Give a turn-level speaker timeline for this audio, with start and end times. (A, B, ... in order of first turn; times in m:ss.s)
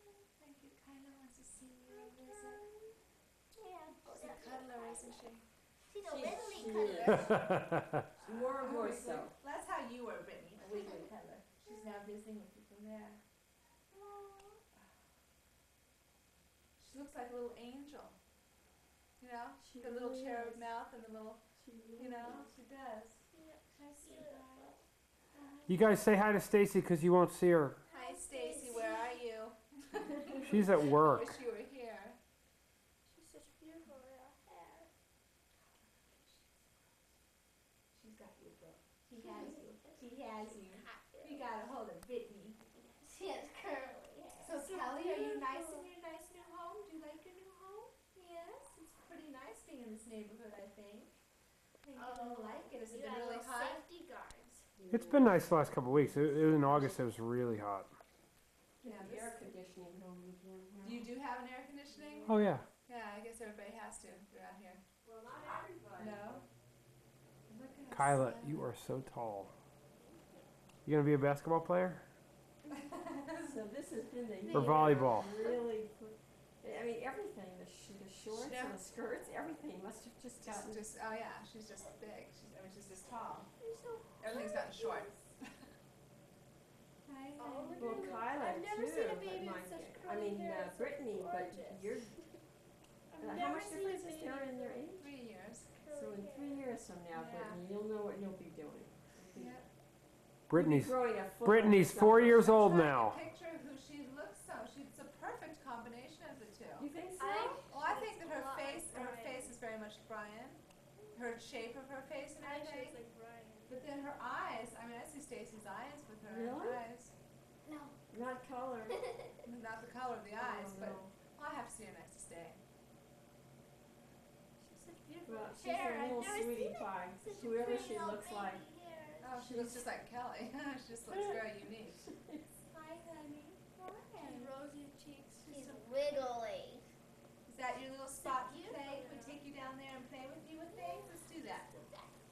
0:00.3-0:02.7 A
0:01.9-0:02.5 B
0:03.6-0:05.2 B
0:04.0-0:05.4 A
0:05.9-0:07.3 B
0:06.0-0:07.4 C
0:06.3-0:07.5 A
0:07.1-0:08.0 D
0:08.2-0:09.3 C
0:08.2-0:13.2 A
0:13.9-0:14.6 B
0:16.8-0:18.2 A
0:19.2-0:21.4 A
0:19.6-0:20.7 C
0:21.6-0:22.5 C
0:22.0-0:23.2 A
0:23.3-0:24.6 B
0:23.8-0:24.7 A
0:25.4-0:25.8 A
0:25.7-0:27.8 D
0:27.9-0:29.2 B
0:27.9-0:32.2 A
0:30.4-0:31.3 D
0:33.0-0:34.9 B
0:35.9-0:36.6 A
0:37.9-0:42.6 A
0:39.2-0:39.9 B
0:40.5-0:41.5 B
0:43.0-0:45.9 B
0:44.4-0:51.1 A
0:51.8-0:53.9 A
0:51.9-0:54.6 B
0:54.8-0:55.4 C
0:54.9-0:57.9 D
0:56.6-0:57.0 C
0:58.8-1:01.1 C
0:58.8-0:59.5 A
1:00.8-1:04.8 A
1:02.3-1:02.7 D
1:05.0-1:06.4 C
1:06.0-1:06.4 A
1:07.5-1:08.7 A
1:07.9-1:09.5 D
1:10.0-1:10.4 B
1:10.8-1:12.0 D
1:12.8-1:13.6 A
1:13.4-1:20.9 C
1:14.4-1:15.6 B
1:14.5-1:15.3 D
1:18.3-1:18.9 A
1:20.4-1:23.5 A
1:23.6-1:25.2 B
1:24.2-1:25.2 A
1:27.0-1:28.2 A
1:27.4-1:32.2 B
1:27.8-1:32.1 C
1:33.1-1:34.8 B
1:33.2-1:35.1 C
1:34.9-1:35.7 A
1:35.7-1:36.6 B
1:35.9-1:39.5 C
1:37.1-1:37.6 A
1:39.3-1:39.7 A
1:40.5-1:43.2 D
1:40.5-1:42.8 C
1:42.4-1:46.9 A
1:46.8-1:47.6 C
1:47.2-1:49.5 B
1:47.5-1:50.6 A
1:51.1-1:53.0 A
1:52.4-1:53.7 B
1:53.7-1:57.1 A
1:56.2-1:56.8 C
1:57.6-1:58.0 B
1:58.1-1:59.1 C
1:58.9-1:59.3 B
1:59.4-2:02.6 A
2:00.3-2:01.1 C
2:04.6-2:09.3 B
2:05.2-2:08.7 C
2:07.6-2:07.9 A
2:09.2-2:12.0 A
2:09.3-2:10.0 C
2:11.1-2:12.5 C
2:12.5-2:14.6 A
2:14.2-2:16.8 B
2:15.5-2:16.2 A
2:17.4-2:21.7 A
2:18.2-2:19.4 B
2:20.7-2:21.1 B
2:21.6-2:22.1 B